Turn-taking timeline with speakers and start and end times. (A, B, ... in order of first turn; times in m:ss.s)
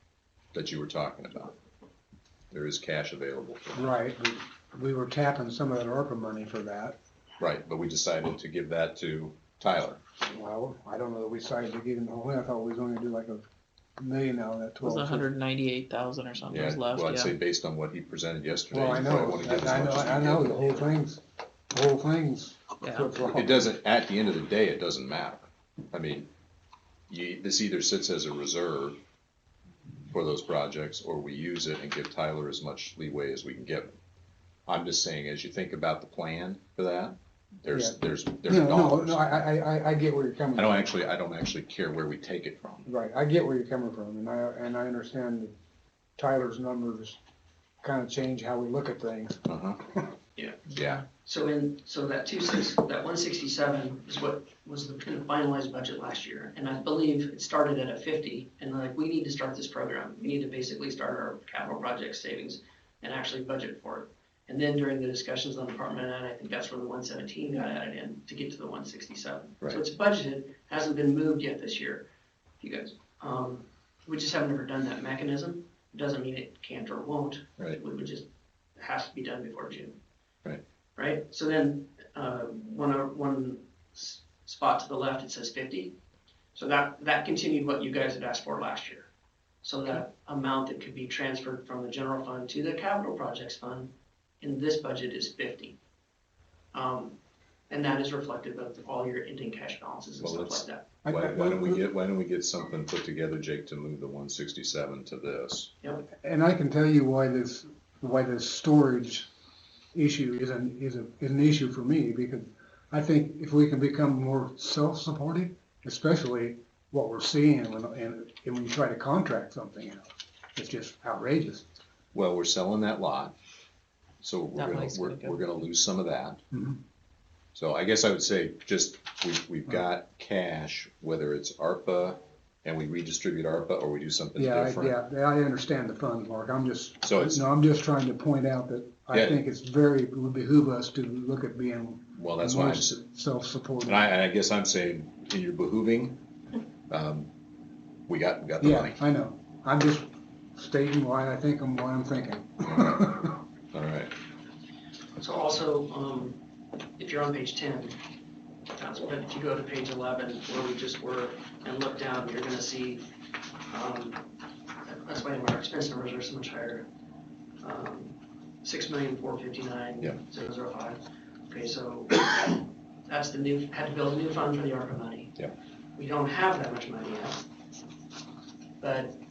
0:00.5-0:01.5 A
0:02.5-0:03.9 A
0:03.8-0:07.0 B
0:07.4-0:10.0 A
0:10.2-0:13.4 B
0:14.0-0:15.3 B
0:14.8-0:17.4 C
0:16.5-0:20.9 A
0:18.7-0:21.2 B
0:21.7-0:23.6 B
0:22.8-0:23.1 C
0:23.2-0:26.3 A
0:27.1-0:29.0 A
0:30.1-0:34.0 A
0:34.7-0:39.5 A
0:38.4-0:40.9 B
0:40.5-0:42.8 A
0:42.8-0:45.5 B
0:46.2-0:47.2 B
0:47.8-0:49.4 B
0:49.4-0:49.8 A
0:50.4-0:50.7 D
0:50.7-0:51.0 A
0:51.2-1:12.1 D
1:12.6-1:20.0 D
1:21.0-1:25.9 D
1:26.5-1:29.1 D
1:29.6-1:35.8 D
1:36.7-1:37.2 D
1:37.7-1:40.8 D
1:40.2-1:45.7 A
1:41.0-1:41.8 B
1:46.2-1:49.3 B
1:49.9-2:01.6 B
2:02.1-2:03.3 A
2:04.2-2:06.4 A
2:04.5-2:05.4 C
2:06.5-2:06.8 B
2:07.5-2:15.0 A
2:14.4-2:24.1 B
2:17.0-2:17.4 A
2:19.1-2:19.4 A
2:22.1-2:23.0 A
2:23.8-2:26.2 A
2:26.9-2:27.3 A
2:28.1-2:29.0 A
2:28.6-2:33.3 B
2:32.6-2:34.1 A
2:35.2-2:36.4 D
2:37.0-2:38.0 D
2:38.7-2:43.1 D
2:43.7-2:44.2 D
2:44.8-2:46.9 D
2:47.6-2:55.3 D
2:56.0-2:57.4 D
2:58.8-2:59.2 D